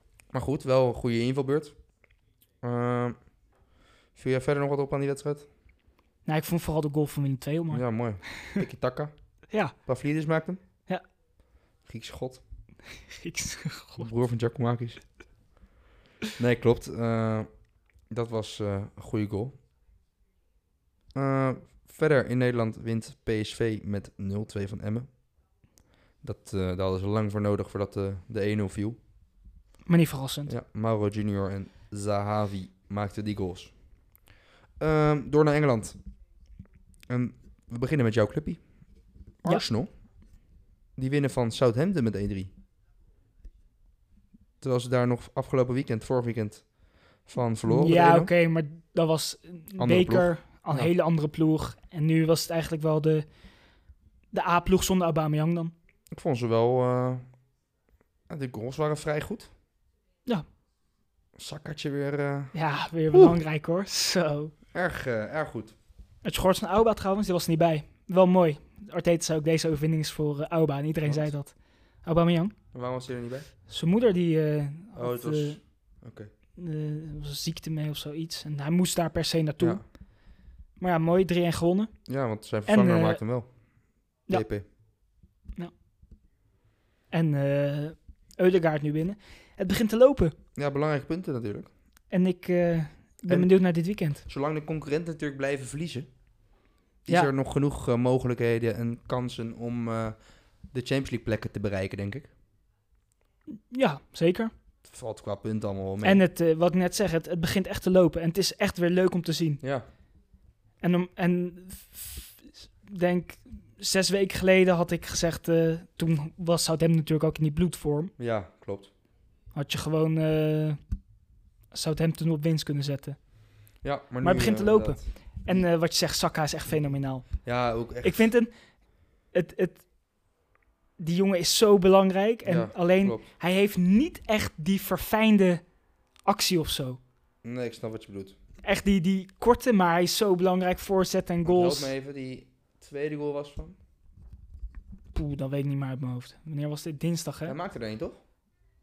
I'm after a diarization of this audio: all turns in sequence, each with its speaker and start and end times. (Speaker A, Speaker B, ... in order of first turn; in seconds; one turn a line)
Speaker A: 0.3-1.7
Speaker A: 2.6-3.1
Speaker A: 4.2-5.5
Speaker B: 6.2-8.6
Speaker A: 7.7-9.1
Speaker A: 9.8-10.6
Speaker A: 11.8-12.4
Speaker B: 13.1-14.1
Speaker A: 14.0-15.0
Speaker A: 16.4-17.5
Speaker A: 18.1-19.6
Speaker A: 21.1-25.1
Speaker A: 26.2-29.0
Speaker B: 29.9-30.5
Speaker A: 30.5-33.7
Speaker A: 34.8-36.0
Speaker A: 37.1-38.6
Speaker A: 39.4-39.9
Speaker A: 41.0-42.5
Speaker A: 44.6-46.6
Speaker A: 47.2-48.3
Speaker B: 47.7-53.2
Speaker A: 49.8-50.9
Speaker B: 54.3-55.7
Speaker A: 56.1-57.2
Speaker A: 58.3-59.5
Speaker A: 61.4-62.5
Speaker B: 62.5-64.5
Speaker A: 63.1-63.4
Speaker A: 64.7-65.7
Speaker B: 66.2-72.5
Speaker A: 71.0-71.3
Speaker A: 72.7-73.5
Speaker B: 73.7-75.6
Speaker A: 75.0-76.3
Speaker B: 76.5-79.8
Speaker B: 80.8-81.9
Speaker A: 82.1-83.5
Speaker B: 82.7-83.2
Speaker A: 84.3-84.6
Speaker B: 87.1-90.3
Speaker A: 90.5-91.7
Speaker B: 92.1-94.2
Speaker A: 94.2-96.1
Speaker A: 97.0-100.2
Speaker A: 100.7-102.3
Speaker B: 103.7-104.5
Speaker A: 104.8-106.2
Speaker B: 106.0-109.6
Speaker B: 110.8-118.1
Speaker A: 118.2-118.9
Speaker B: 119.5-120.8
Speaker B: 121.7-123.2
Speaker A: 123.8-125.6
Speaker B: 124.2-127.4
Speaker A: 127.4-128.3
Speaker B: 128.0-128.5
Speaker B: 129.3-129.8
Speaker B: 131.0-135.6
Speaker A: 132.4-133.2
Speaker B: 136.2-137.0
Speaker A: 137.4-138.3
Speaker B: 138.6-141.9
Speaker A: 141.4-143.8
Speaker B: 145.1-147.6
Speaker A: 147.4-148.2